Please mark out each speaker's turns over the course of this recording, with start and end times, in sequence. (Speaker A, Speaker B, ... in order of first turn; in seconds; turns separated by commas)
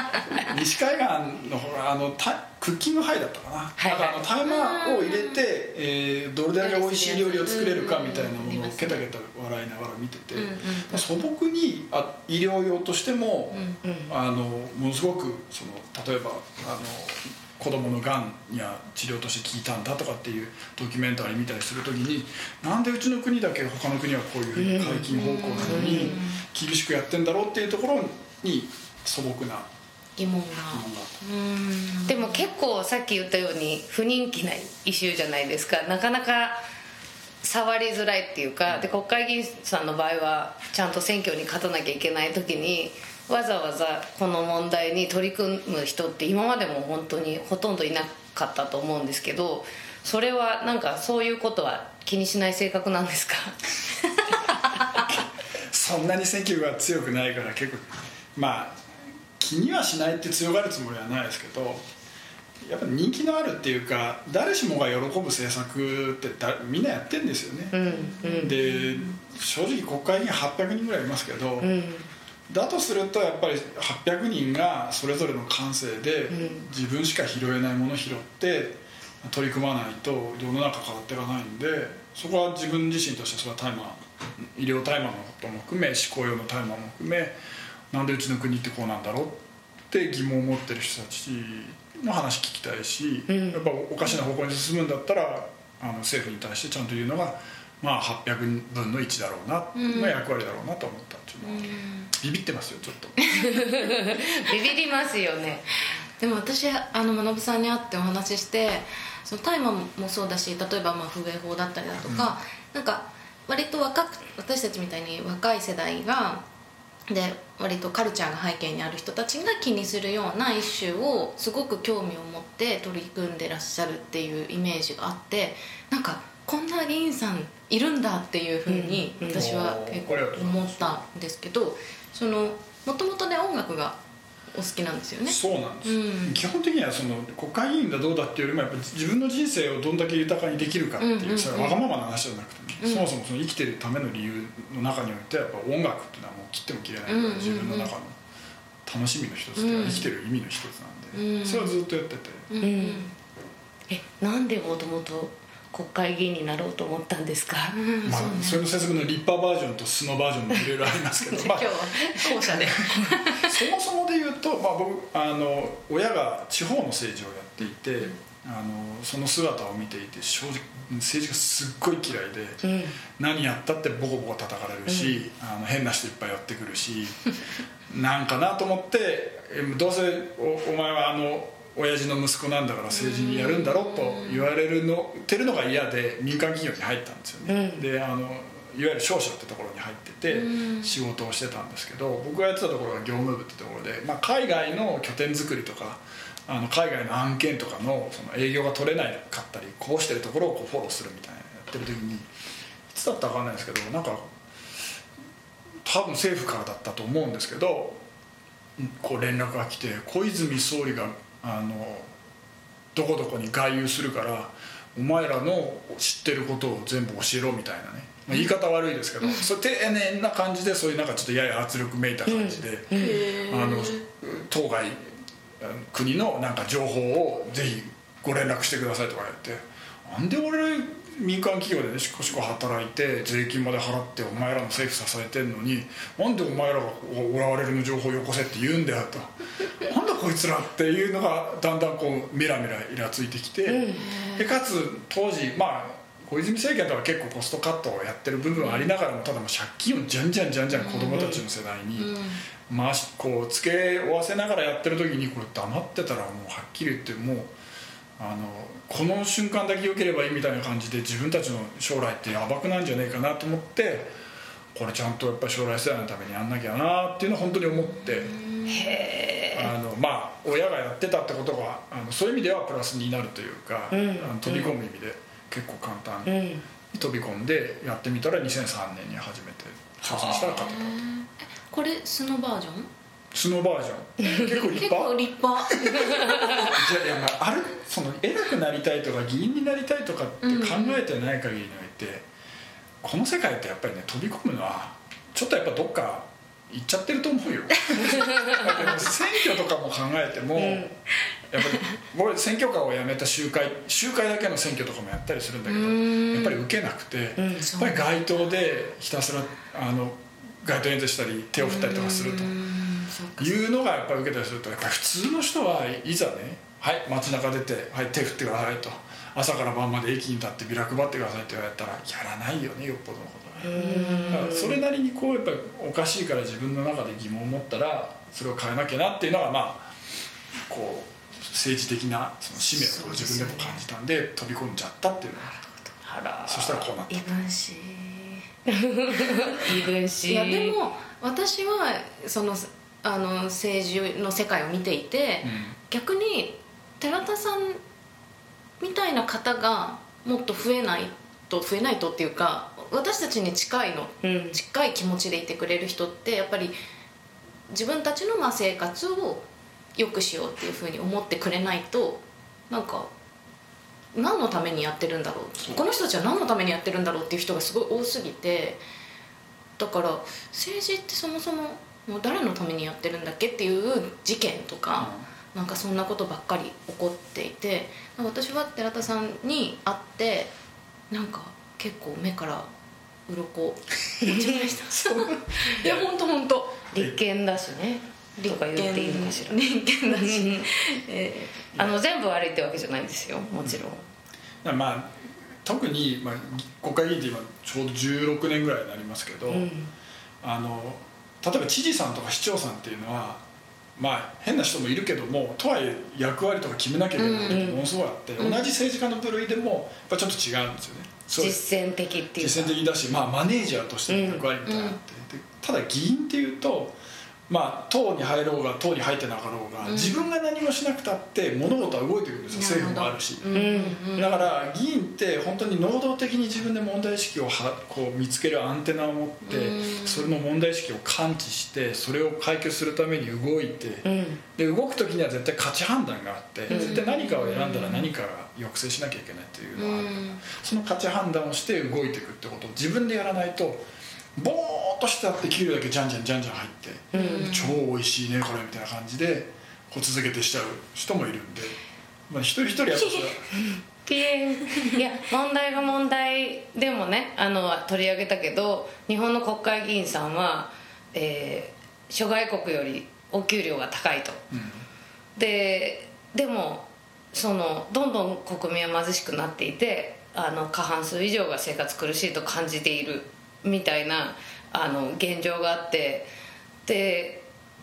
Speaker A: 0.3-29.7, Speaker B: 3.8-4.2, Speaker C: 4.4-5.4, Speaker C: 6.6-9.0, Speaker C: 10.3-11.1, Speaker C: 13.5-13.8, Speaker B: 13.8-14.1, Speaker B: 24.6-25.1, Speaker C: 25.1-26.4, Speaker B: 25.6-26.2, Speaker C: 30.2-32.5, Speaker A: 30.7-31.1, Speaker B: 32.1-36.6, Speaker B: 37.4-53.6, Speaker A: 55.7-58.8, Speaker A: 59.4-61.8, Speaker A: 62.6-67.8, Speaker B: 67.7-68.5, Speaker C: 67.8-69.1, Speaker A: 68.3-71.8, Speaker B: 71.6-72.1, Speaker A: 72.5-87.4, Speaker B: 76.3-76.6, Speaker A: 87.9-103.3, Speaker B: 93.3-93.7, Speaker C: 99.7-100.2, Speaker C: 101.4-102.1, Speaker C: 103.2-104.1, Speaker B: 103.5-105.8, Speaker C: 106.2-116.4, Speaker A: 112.0-112.4, Speaker C: 117.1-134.0, Speaker B: 128.7-129.4, Speaker A: 129.3-131.0, Speaker C: 134.5-136.4, Speaker A: 135.2-148.2, Speaker C: 141.0-141.8, Speaker C: 142.8-143.1, Speaker C: 147.1-147.9, Speaker A: 148.8-152.5, Speaker C: 149.6-150.1, Speaker C: 151.1-151.8, Speaker C: 152.5-153.1, Speaker B: 152.6-153.1, Speaker B: 153.9-157.8, Speaker C: 157.7-158.6, Speaker A: 158.0-172.6, Speaker C: 161.2-163.6, Speaker B: 172.6-173.0, Speaker A: 173.2-177.2, Speaker B: 174.9-175.2, Speaker A: 177.9-202.3, Speaker C: 182.9-184.5, Speaker B: 187.5-187.8, Speaker C: 190.3-191.0, Speaker A: 202.9-204.3, Speaker A: 205.8-208.0, Speaker A: 208.8-212.1, Speaker A: 212.9-225.0, Speaker B: 222.3-223.2, Speaker C: 222.9-224.0, Speaker A: 225.6-252.2, Speaker B: 243.7-244.0, Speaker C: 243.9-244.5, Speaker C: 248.5-248.9, Speaker C: 250.7-251.3, Speaker C: 252.0-252.4, Speaker A: 252.7-257.5, Speaker A: 258.2-264.1, Speaker A: 264.7-268.4, Speaker C: 268.0-269.0, Speaker B: 268.7-269.7, Speaker A: 269.5-281.0, Speaker B: 273.9-274.7, Speaker B: 276.2-276.6, Speaker C: 280.0-282.9, Speaker A: 283.3-285.1, Speaker C: 284.3-286.8, Speaker A: 285.7-292.2, Speaker C: 290.4-291.0, Speaker A: 293.0-300.9, Speaker B: 300.6-300.9, Speaker A: 301.5-312.6, Speaker C: 305.7-306.6, Speaker B: 307.4-307.6, Speaker C: 307.6-308.1, Speaker C: 311.6-313.6, Speaker A: 313.4-329.9, Speaker B: 323.6-324.8, Speaker C: 323.8-324.4, Speaker A: 330.7-335.6, Speaker C: 332.6-333.7, Speaker B: 336.0-336.9, Speaker A: 336.5-337.3, Speaker C: 337.1-338.4, Speaker B: 338.7-340.8, Speaker C: 339.2-339.7, Speaker C: 340.2-347.8, Speaker A: 345.4-345.8, Speaker C: 348.8-356.8, Speaker B: 354.2-354.6, Speaker C: 357.7-363.1, Speaker C: 364.1-368.8, Speaker A: 365.6-365.9, Speaker C: 369.8-380.5, Speaker A: 375.0-375.2, Speaker C: 381.1-382.7, Speaker C: 383.3-386.8, Speaker B: 384.2-384.6, Speaker A: 384.9-386.1, Speaker B: 386.9-390.7, Speaker C: 388.4-391.7, Speaker B: 391.8-394.0, Speaker A: 394.6-399.7, Speaker B: 399.5-399.9, Speaker A: 400.4-403.4, Speaker A: 403.9-411.6, Speaker C: 407.2-407.6, Speaker B: 407.5-407.8, Speaker C: 408.4-408.7, Speaker B: 411.4-412.8, Speaker A: 412.4-423.5, Speaker B: 414.1-414.4, Speaker C: 414.6-415.0, Speaker C: 419.8-420.2, Speaker C: 422.5-424.5, Speaker B: 423.5-424.2, Speaker A: 424.1-451.8, Speaker C: 429.4-430.3, Speaker B: 434.0-434.4, Speaker C: 436.7-438.1, Speaker B: 436.7-437.0, Speaker C: 439.8-440.4, Speaker B: 447.1-447.5, Speaker C: 447.1-447.8, Speaker A: 452.3-453.4, Speaker B: 454.0-464.4, Speaker A: 464.5-464.8, Speaker B: 465.4-476.3, Speaker B: 476.9-477.5